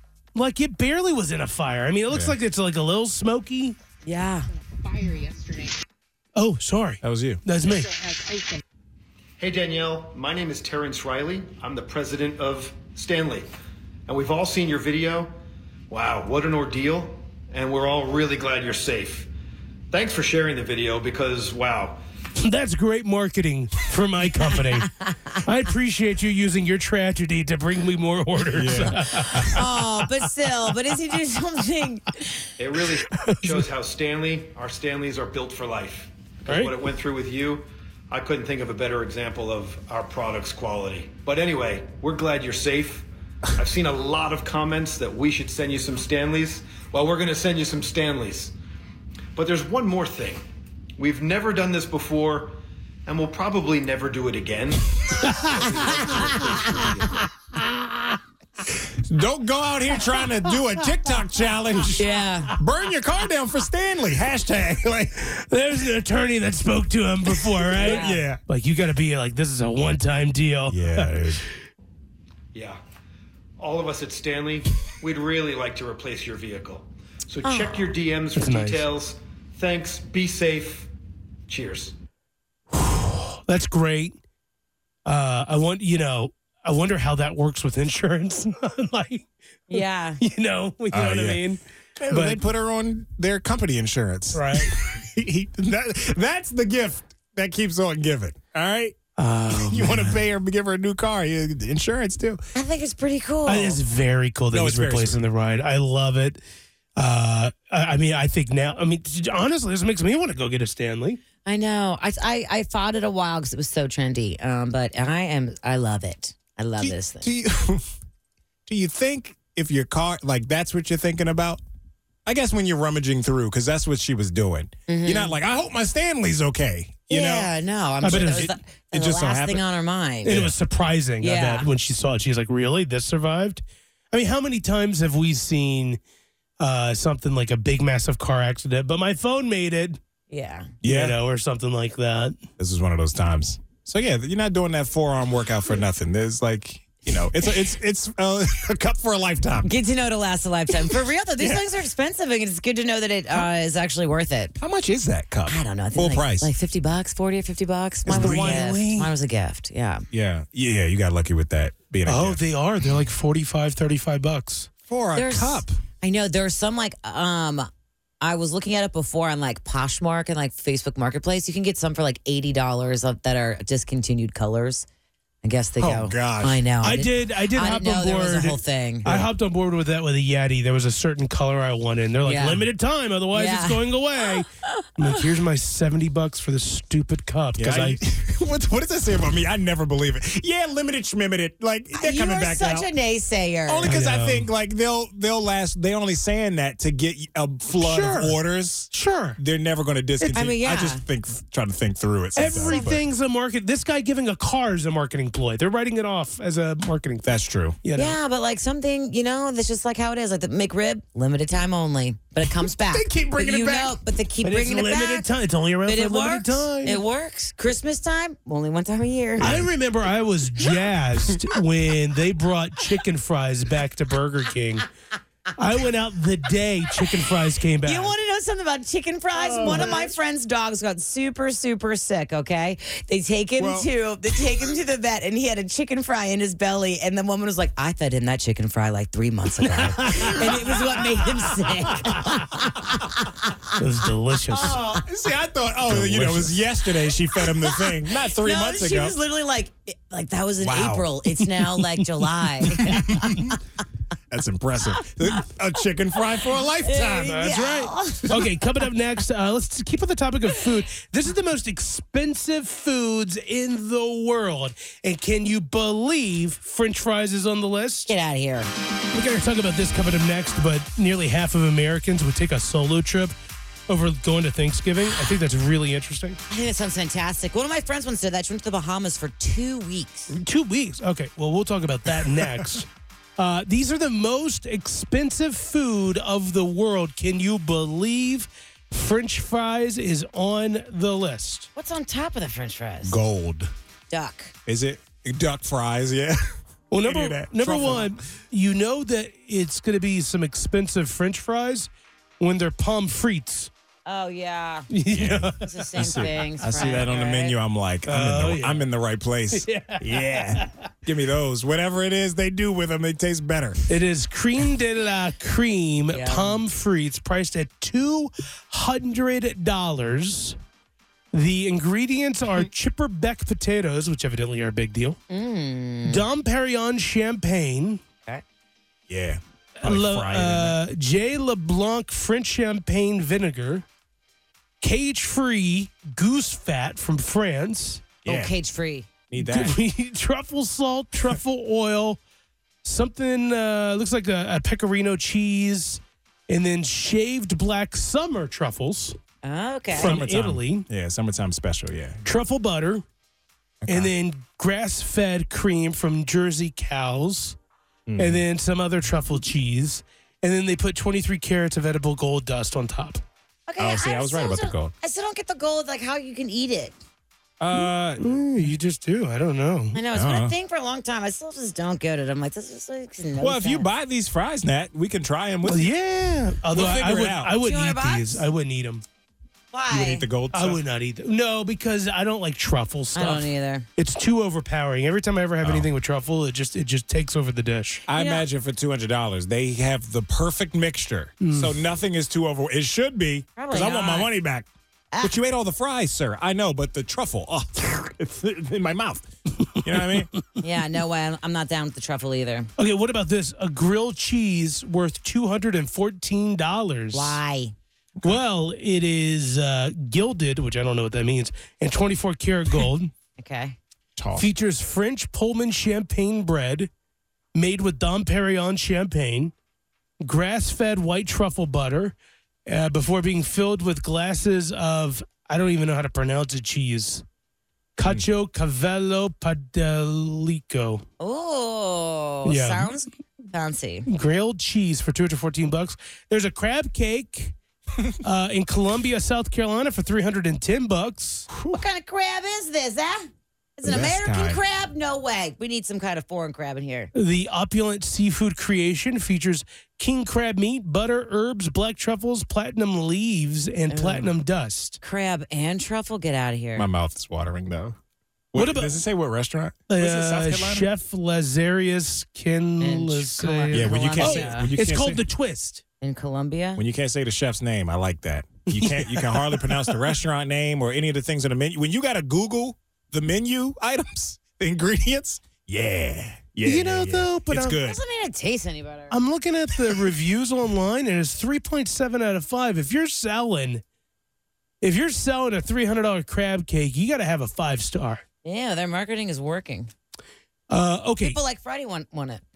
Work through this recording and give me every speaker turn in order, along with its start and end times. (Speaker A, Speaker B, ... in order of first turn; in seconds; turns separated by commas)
Speaker A: 0.3-3.8, Speaker B: 2.1-2.3, Speaker C: 4.0-4.5, Speaker A: 6.3-8.1, Speaker B: 7.0-7.4, Speaker D: 9.4-13.5, Speaker D: 14.1-15.3, Speaker D: 15.9-19.3, Speaker D: 19.9-22.0, Speaker A: 22.4-24.9, Speaker A: 25.4-29.6, Speaker B: 28.5-29.6, Speaker C: 29.5-32.3, Speaker D: 32.6-48.5, Speaker A: 33.1-33.6, Speaker A: 36.5-36.7, Speaker D: 49.3-50.4, Speaker D: 51.0-57.1, Speaker C: 55.9-56.6, Speaker A: 57.6-58.0, Speaker B: 58.7-62.0, Speaker C: 62.0-62.5, Speaker B: 62.5-65.2, Speaker A: 65.2-71.4, Speaker B: 67.7-68.4, Speaker C: 67.8-68.2, Speaker B: 70.7-71.4, Speaker D: 72.5-72.8, Speaker D: 73.6-80.9, Speaker C: 77.4-77.9, Speaker A: 78.3-78.9, Speaker D: 81.5-81.9, Speaker A: 82.7-84.1, Speaker A: 85.0-92.4, Speaker C: 89.7-90.2, Speaker B: 90.9-91.4, Speaker B: 92.0-99.0, Speaker A: 94.3-94.7, Speaker A: 99.2-100.2, Speaker B: 99.5-102.4, Speaker C: 102.5-103.8, Speaker A: 103.5-106.4, Speaker B: 104.5-105.2, Speaker A: 107.0-111.2, Speaker C: 111.4-117.3, Speaker B: 116.8-117.8, Speaker B: 118.7-121.6, Speaker B: 122.2-127.5, Speaker C: 124.9-125.3, Speaker C: 127.1-130.4, Speaker A: 128.0-128.5, Speaker B: 128.0-129.6, Speaker B: 130.2-130.5, Speaker A: 130.2-133.6, Speaker C: 131.2-131.7, Speaker A: 134.1-136.0, Speaker A: 136.6-140.0, Speaker C: 140.3-140.7, Speaker B: 140.8-141.2, Speaker A: 140.8-142.3, Speaker B: 142.6-149.7, Speaker C: 149.6-154.6, Speaker B: 151.4-151.6, Speaker B: 154.6-156.5, Speaker C: 155.4-160.0, Speaker B: 158.1-158.9, Speaker A: 158.1-159.1, Speaker B: 160.1-162.4, Speaker A: 162.1-164.7, Speaker B: 164.9-165.8, Speaker C: 165.1-167.7, Speaker C: 168.2-174.8, Speaker C: 175.4-179.1, Speaker B: 175.8-176.6, Speaker A: 176.8-188.0, Speaker C: 182.2-182.6, Speaker C: 183.3-183.8, Speaker B: 187.6-192.9, Speaker C: 191.9-193.9, Speaker B: 193.7-203.0, Speaker A: 193.8-194.5, Speaker A: 197.7-198.3, Speaker A: 198.9-199.4, Speaker C: 200.3-201.0, Speaker A: 202.3-207.3, Speaker C: 202.6-202.9, Speaker B: 207.2-207.8, Speaker A: 207.8-208.2, Speaker C: 207.9-215.3, Speaker B: 212.6-214.0, Speaker A: 214.4-217.0, Speaker C: 215.8-219.6, Speaker B: 219.4-219.7, Speaker A: 219.4-224.8, Speaker A: 225.6-228.1, Speaker C: 227.8-243.7, Speaker B: 229.4-230.0, Speaker A: 229.6-230.0, Speaker B: 233.6-233.9, Speaker A: 239.6-241.0, Speaker A: 243.8-244.8, Speaker C: 244.5-245.0, Speaker B: 244.6-249.2, Speaker A: 245.9-246.6, Speaker C: 247.4-253.5, Speaker B: 250.6-251.1, Speaker B: 252.8-253.3, Speaker B: 254.3-257.4, Speaker C: 256.8-258.5, Speaker A: 257.2-268.1, Speaker C: 268.1-268.7, Speaker A: 269.1-273.3, Speaker A: 273.9-276.4, Speaker C: 276.5-280.3, Speaker A: 280.3-291.7, Speaker C: 291.8-293.2, Speaker B: 293.0-293.7, Speaker C: 294.1-294.5, Speaker B: 294.6-296.4, Speaker A: 296.9-301.9, Speaker B: 297.0-298.2, Speaker A: 302.4-303.7, Speaker C: 304.1-304.9, Speaker A: 304.9-306.3, Speaker B: 305.1-313.8, Speaker C: 305.6-307.6, Speaker A: 308.1-308.9, Speaker A: 309.5-310.8, Speaker A: 313.9-320.6, Speaker C: 316.1-316.6, Speaker A: 321.3-325.2, Speaker C: 325.3-326.2, Speaker A: 326.0-328.0, Speaker B: 329.1-330.8, Speaker A: 329.8-333.8, Speaker A: 334.8-338.1, Speaker B: 338.2-338.5, Speaker C: 338.2-339.1, Speaker B: 339.3-339.8, Speaker A: 339.4-342.2, Speaker A: 342.8-349.1, Speaker C: 349.4-350.1, Speaker A: 349.9-350.9, Speaker B: 349.9-352.2, Speaker A: 352.2-353.0, Speaker B: 353.8-354.1, Speaker A: 353.9-357.6, Speaker B: 358.1-358.4, Speaker A: 358.2-363.2, Speaker C: 363.7-367.0, Speaker B: 363.8-364.9, Speaker B: 367.6-368.3, Speaker A: 368.2-370.0, Speaker C: 369.9-373.9, Speaker B: 370.1-370.5, Speaker B: 373.4-375.9, Speaker A: 375.6-379.0, Speaker B: 376.7-377.6, Speaker C: 377.5-378.4, Speaker C: 379.7-380.3, Speaker B: 379.9-380.8, Speaker A: 380.5-388.0, Speaker C: 383.1-383.9, Speaker B: 385.6-385.9, Speaker B: 388.1-394.7, Speaker C: 388.1-388.4, Speaker A: 391.4-391.7, Speaker C: 393.6-394.3, Speaker B: 395.2-399.3, Speaker B: 399.8-400.3, Speaker C: 400.6-402.7, Speaker A: 402.8-407.4, Speaker C: 407.1-407.7, Speaker A: 408.2-413.1, Speaker C: 413.4-413.8, Speaker B: 414.1-414.5, Speaker A: 414.3-416.9, Speaker A: 417.5-419.5, Speaker A: 420.2-422.1, Speaker A: 422.7-427.2, Speaker A: 427.9-431.0, Speaker C: 431.2-434.1, Speaker A: 432.4-432.9, Speaker A: 434.1-437.5, Speaker A: 438.2-441.5, Speaker C: 441.7-447.1, Speaker B: 443.8-444.6, Speaker A: 447.1-455.0, Speaker C: 453.9-454.3, Speaker C: 455.0-456.9, Speaker B: 456.8-458.0, Speaker B: 458.5-460.9, Speaker A: 458.5-459.0, Speaker A: 459.9-465.8, Speaker C: 462.8-464.7, Speaker B: 463.7-465.2, Speaker C: 466.0-466.8, Speaker B: 466.8-478.0, Speaker A: 468.7-470.1, Speaker A: 476.6-477.8, Speaker C: 477.8-479.2, Speaker A: 479.1-483.8, Speaker A: 484.8-488.2, Speaker C: 488.4-489.9, Speaker A: 490.7-491.4, Speaker C: 491.2-492.4